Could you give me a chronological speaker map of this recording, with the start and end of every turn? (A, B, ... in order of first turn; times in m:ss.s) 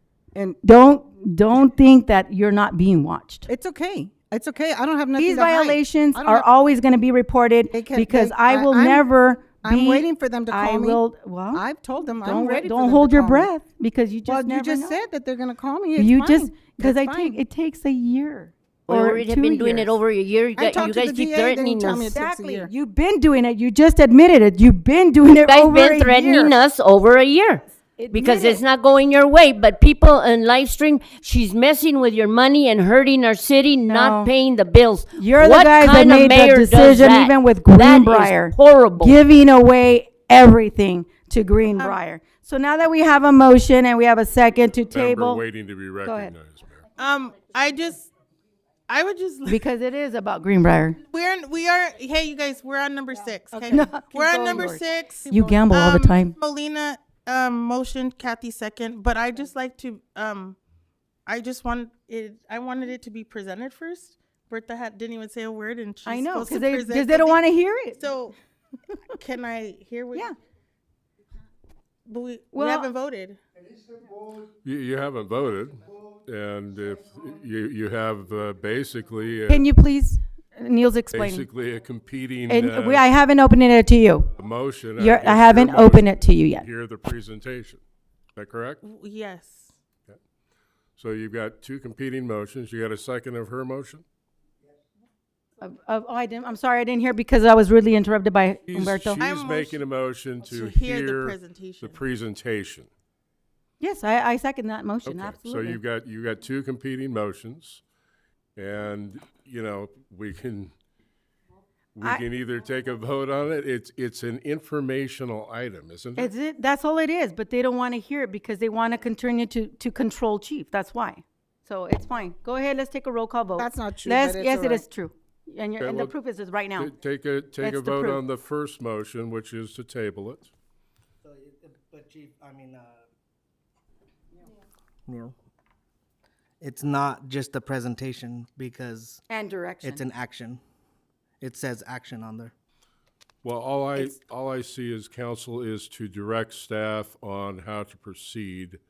0:00.6-0:03.5 A
0:03.5-0:06.4 B
0:05.2-0:11.6 A
0:07.7-0:09.1 B
0:09.6-0:11.0 B
0:11.5-0:13.5 B
0:12.2-0:15.0 A
0:14.3-0:17.4 B
0:16.0-0:19.9 A
0:18.9-0:22.1 C
0:20.6-0:22.7 B
0:22.1-0:26.6 A
0:25.5-0:39.2 C
0:28.0-0:28.6 A
0:33.9-0:34.3 A
0:35.2-0:45.4 A
0:44.9-0:46.9 D
0:46.0-0:46.3 A
0:47.0-0:48.1 E
0:48.9-0:49.6 E
0:49.5-0:51.0 A
0:51.1-1:00.6 E
0:53.5-0:54.7 B
0:53.7-0:56.4 A
0:55.3-0:55.6 B
1:01.3-1:07.4 E
1:06.1-1:08.0 A
1:08.0-1:08.4 E
1:09.2-1:10.3 E
1:12.1-1:13.4 E
1:12.5-1:12.9 A
1:14.4-1:19.7 D
1:19.5-1:21.5 A
1:21.1-1:23.0 D
1:22.5-1:24.3 A
1:24.4-1:27.8 D
1:25.0-1:26.7 A
1:28.4-1:28.8 D
1:28.8-1:29.7 E
1:31.0-1:34.0 D
1:35.6-1:39.2 A
1:38.7-1:42.9 D
1:39.2-1:39.8 E
1:40.4-1:42.0 E
1:43.8-1:45.8 A
1:45.0-1:47.8 D
1:48.6-1:50.7 D
1:52.0-1:56.3 D
1:56.2-2:06.9 A
2:03.6-2:04.8 B
2:05.8-2:06.1 D
2:06.8-2:10.5 D
2:07.6-2:08.2 A
2:11.2-2:13.1 F
2:15.1-2:15.4 F
2:16.6-2:19.2 F
2:19.3-2:20.0 A
2:19.8-2:20.6 F
2:21.4-2:22.5 F
2:23.4-2:28.8 D